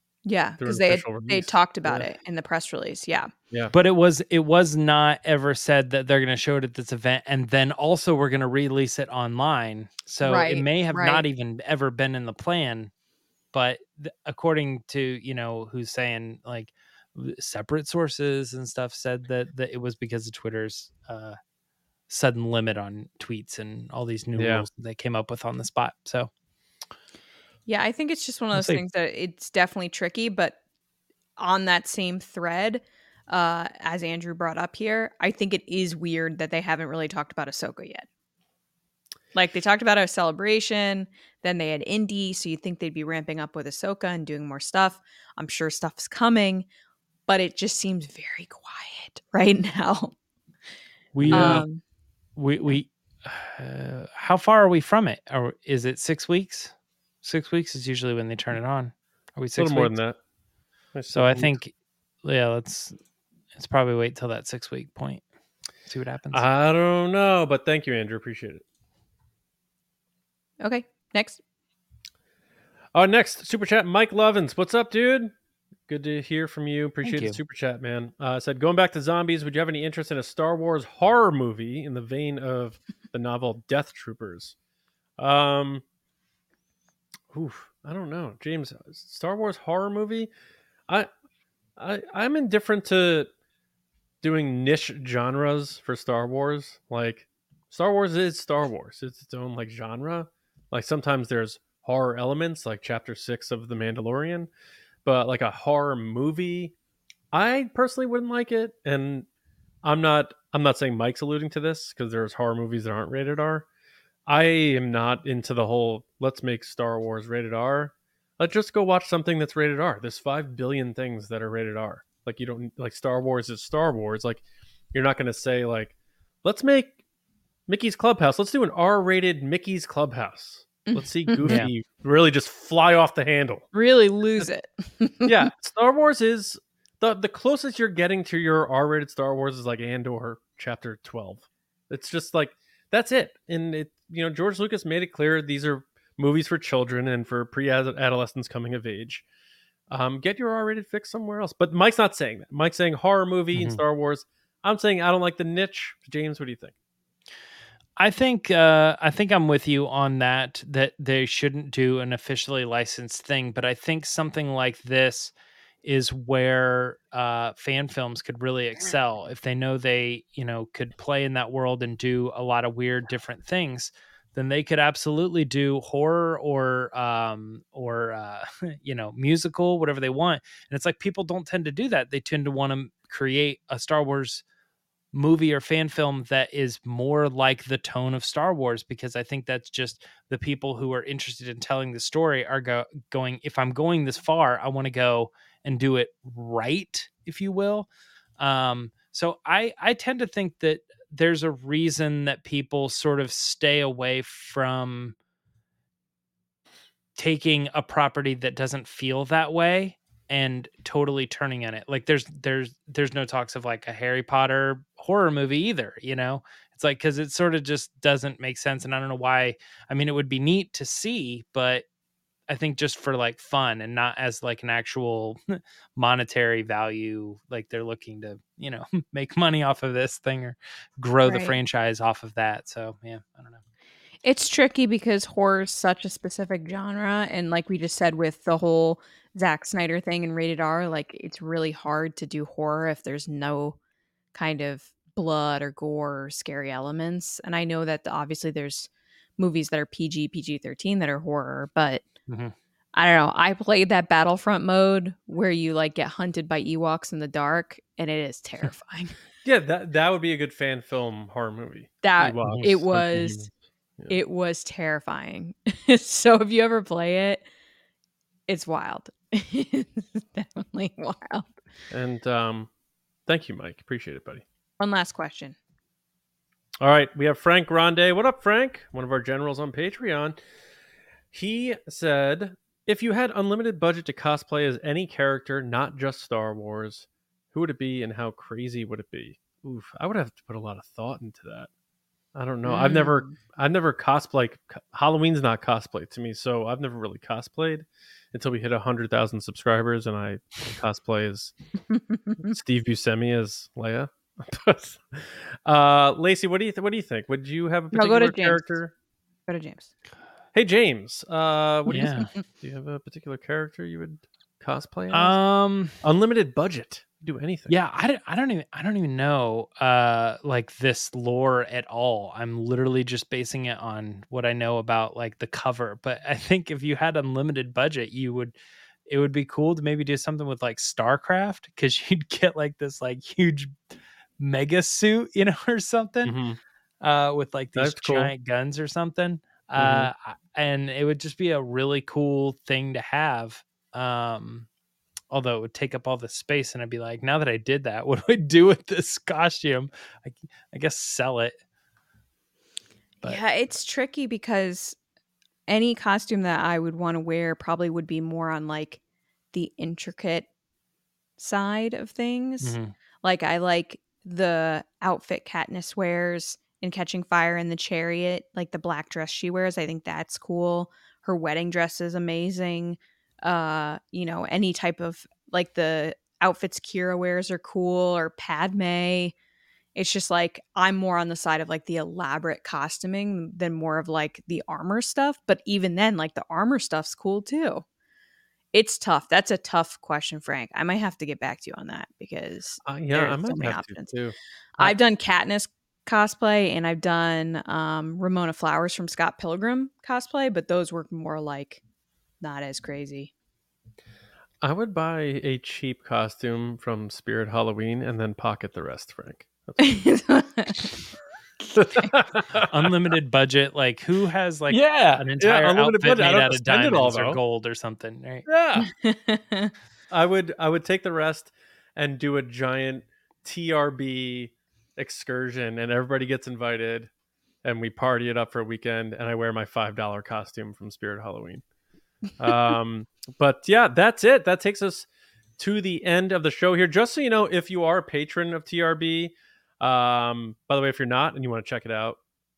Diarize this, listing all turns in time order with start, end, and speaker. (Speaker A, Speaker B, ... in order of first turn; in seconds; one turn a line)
Speaker A: 0.2-3.3
Speaker B: 0.6-2.1
Speaker C: 3.7-12.9
Speaker A: 10.2-11.2
Speaker C: 13.5-21.4
Speaker C: 22.1-26.3
Speaker B: 24.4-24.7
Speaker A: 27.7-30.6
Speaker A: 31.4-38.1
Speaker A: 39.3-46.7
Speaker A: 47.3-50.1
Speaker C: 51.1-51.7
Speaker B: 51.2-51.6
Speaker A: 51.3-51.8
Speaker C: 52.4-60.0
Speaker B: 59.6-60.2
Speaker B: 60.9-61.6
Speaker C: 61.1-61.7
Speaker C: 62.2-63.0
Speaker C: 63.6-65.2
Speaker C: 65.9-66.5
Speaker B: 66.3-68.6
Speaker A: 70.6-71.4
Speaker B: 72.9-75.3
Speaker B: 75.9-84.6
Speaker C: 77.0-77.4
Speaker B: 85.2-85.8
Speaker B: 87.3-90.3
Speaker B: 91.8-93.3
Speaker B: 94.2-104.5
Speaker B: 105.0-106.7
Speaker B: 107.3-109.3
Speaker B: 109.8-113.7
Speaker B: 114.3-127.0
Speaker B: 127.7-133.7
Speaker A: 130.9-131.6
Speaker C: 131.4-131.7
Speaker A: 133.7-135.5
Speaker B: 135.3-149.2
Speaker B: 149.9-156.7
Speaker C: 153.5-153.8
Speaker C: 158.0-165.3
Speaker C: 165.8-184.4
Speaker C: 185.1-197.9
Speaker C: 198.4-205.2
Speaker C: 207.2-221.8
Speaker C: 222.5-233.6
Speaker A: 231.2-231.6
Speaker A: 234.2-243.8
Speaker A: 244.3-252.1
Speaker C: 252.3-252.5
Speaker A: 252.9-259.1
Speaker B: 259.4-263.5
Speaker A: 262.0-263.5
Speaker C: 262.4-262.7
Speaker A: 264.1-267.4
Speaker A: 268.5-271.5
Speaker B: 271.9-272.7
Speaker B: 273.3-274.4
Speaker A: 274.8-275.6
Speaker B: 276.8-280.4
Speaker B: 281.3-291.7
Speaker B: 292.4-301.6
Speaker A: 292.7-293.3
Speaker A: 301.9-302.6
Speaker B: 302.5-308.9
Speaker A: 307.9-308.8
Speaker A: 309.5-309.9
Speaker B: 310.5-315.4
Speaker C: 311.9-312.3
Speaker A: 311.9-312.4
Speaker C: 315.1-316.0
Speaker B: 316.0-317.7
Speaker C: 317.7-328.5
Speaker C: 329.1-333.8
Speaker C: 334.4-336.4
Speaker B: 336.2-336.6
Speaker C: 337.0-344.7
Speaker B: 337.8-338.3
Speaker B: 339.8-340.1
Speaker C: 345.3-351.6
Speaker A: 353.2-355.0
Speaker A: 355.7-359.0
Speaker A: 359.5-360.5
Speaker A: 361.4-379.3
Speaker C: 362.6-362.9
Speaker A: 380.0-387.8
Speaker A: 388.7-394.1
Speaker B: 392.9-394.9
Speaker A: 394.8-401.8
Speaker A: 402.4-403.3
Speaker B: 404.6-410.1
Speaker A: 409.8-410.9
Speaker A: 411.6-412.2
Speaker B: 411.8-412.9
Speaker C: 412.7-418.5
Speaker B: 414.7-417.4
Speaker B: 418.5-418.9
Speaker A: 418.8-419.7
Speaker B: 420.1-427.1
Speaker B: 427.6-431.6
Speaker B: 432.4-442.2